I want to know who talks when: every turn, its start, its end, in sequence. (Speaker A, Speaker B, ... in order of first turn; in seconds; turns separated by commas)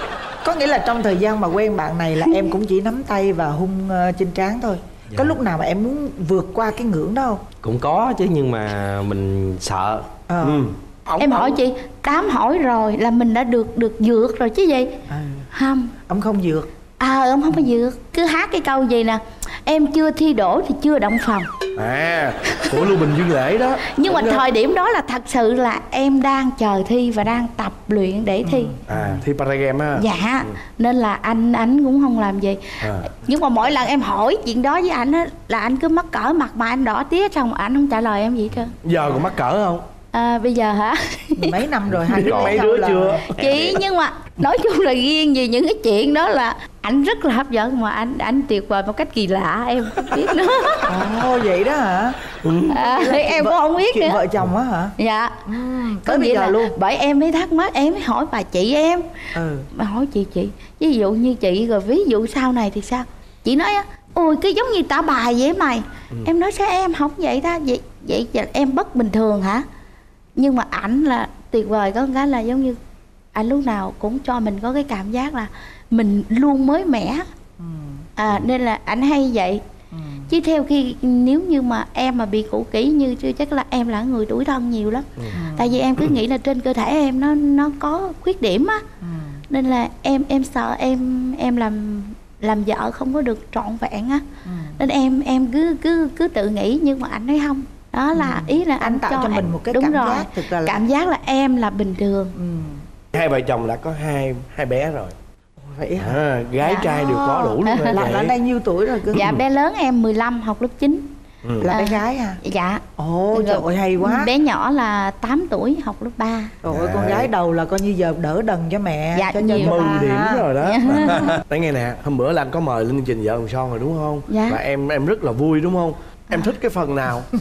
Speaker A: 0.4-7.4, Speaker B: 7.6-10.1, Speaker A: 10.3-10.7, Speaker C: 10.4-11.6, Speaker D: 11.2-14.9, Speaker A: 15.1-15.5, Speaker D: 15.5-15.9, Speaker A: 16.1-16.7, Speaker D: 17.0-21.5, Speaker C: 21.8-24.5, Speaker D: 23.9-28.8, Speaker A: 28.4-29.1, Speaker C: 28.9-30.1, Speaker D: 30.0-38.8, Speaker C: 32.8-33.1, Speaker C: 38.8-39.9, Speaker D: 40.1-41.4, Speaker A: 41.4-43.2, Speaker C: 41.9-43.4, Speaker B: 42.1-42.6, Speaker D: 43.3-50.9, Speaker B: 43.4-43.8, Speaker A: 50.9-52.2, Speaker C: 52.4-52.8, Speaker D: 52.7-54.2, Speaker A: 52.8-55.0, Speaker D: 55.0-55.4, Speaker A: 55.5-56.8, Speaker D: 56.1-59.1, Speaker A: 59.4-59.7, Speaker D: 59.7-69.7, Speaker D: 70.4-72.8, Speaker D: 73.3-77.3, Speaker A: 77.6-78.1, Speaker D: 78.2-79.6, Speaker A: 79.9-80.3, Speaker D: 80.3-88.8, Speaker A: 85.3-85.8, Speaker A: 89.0-89.4, Speaker D: 89.5-94.2, Speaker A: 94.5-94.8, Speaker D: 94.8-102.3, Speaker A: 98.1-100.8, Speaker A: 102.4-102.8, Speaker C: 103.1-105.2, Speaker A: 105.6-109.3, Speaker C: 106.0-108.3, Speaker D: 107.7-108.0, Speaker D: 109.1-111.1, Speaker A: 111.6-112.4, Speaker D: 111.7-116.5, Speaker A: 113.0-114.3, Speaker A: 116.6-120.5, Speaker C: 116.7-117.3, Speaker D: 119.2-120.0, Speaker C: 119.6-127.3, Speaker D: 120.6-121.3, Speaker D: 124.3-124.6